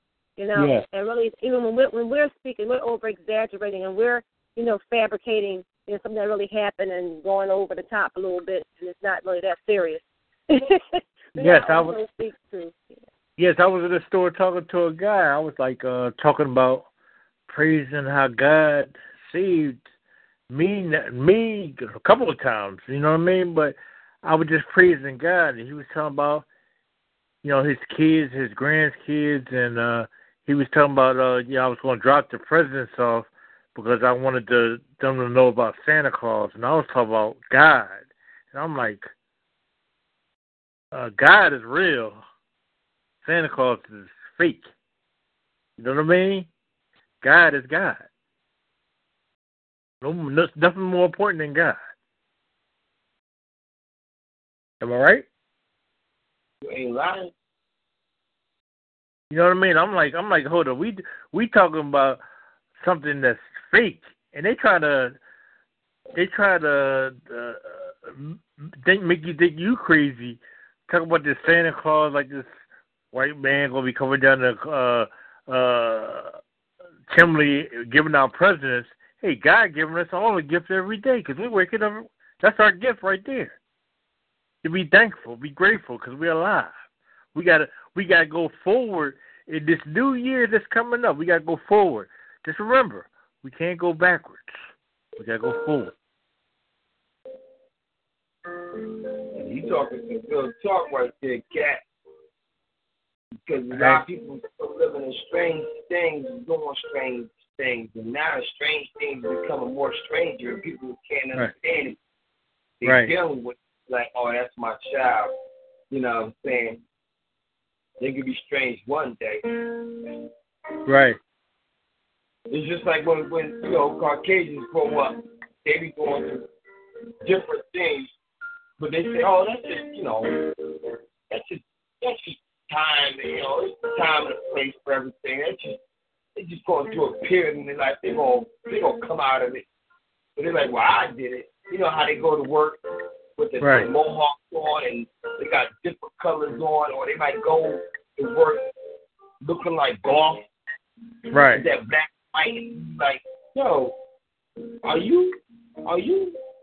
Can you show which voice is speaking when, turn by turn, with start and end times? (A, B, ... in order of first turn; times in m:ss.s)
0:00.4-0:12.8 A
0:00.5-0:00.8 B
0:11.4-0:12.0 B
0:13.4-0:16.9 B
0:17.5-0:19.8 B
0:20.5-0:26.4 B
0:27.4-0:38.0 B
0:38.5-0:39.1 B
0:40.9-0:42.2 B
0:43.2-0:44.7 B
0:45.8-0:46.5 B
0:47.2-0:48.0 B
0:50.0-0:51.8 B
0:54.8-0:55.2 B
0:56.6-0:57.3 C
0:59.3-1:02.2 B
1:02.8-1:05.2 B
1:06.1-1:12.5 B
1:13.1-1:16.4 B
1:17.1-1:23.5 B
1:24.6-1:26.7 B
1:27.3-1:34.5 B
1:35.2-1:35.9 B
1:39.3-1:41.8 C
1:43.4-1:52.0 C
1:43.7-1:44.0 B
1:52.8-1:55.3 C
1:52.8-1:53.1 B
1:55.9-1:56.8 C
1:58.0-1:59.6 C
2:00.8-2:01.2 B
2:02.5-2:06.4 C
2:07.2-2:08.1 C
2:08.8-2:10.4 C
2:11.3-2:15.8 C
2:16.4-2:19.6 C
2:20.4-2:22.8 C
2:23.4-2:28.6 C
2:23.6-2:23.9 B
2:29.4-2:30.5 C
2:31.3-2:31.7 B
2:31.5-2:33.9 C
2:34.8-2:36.4 C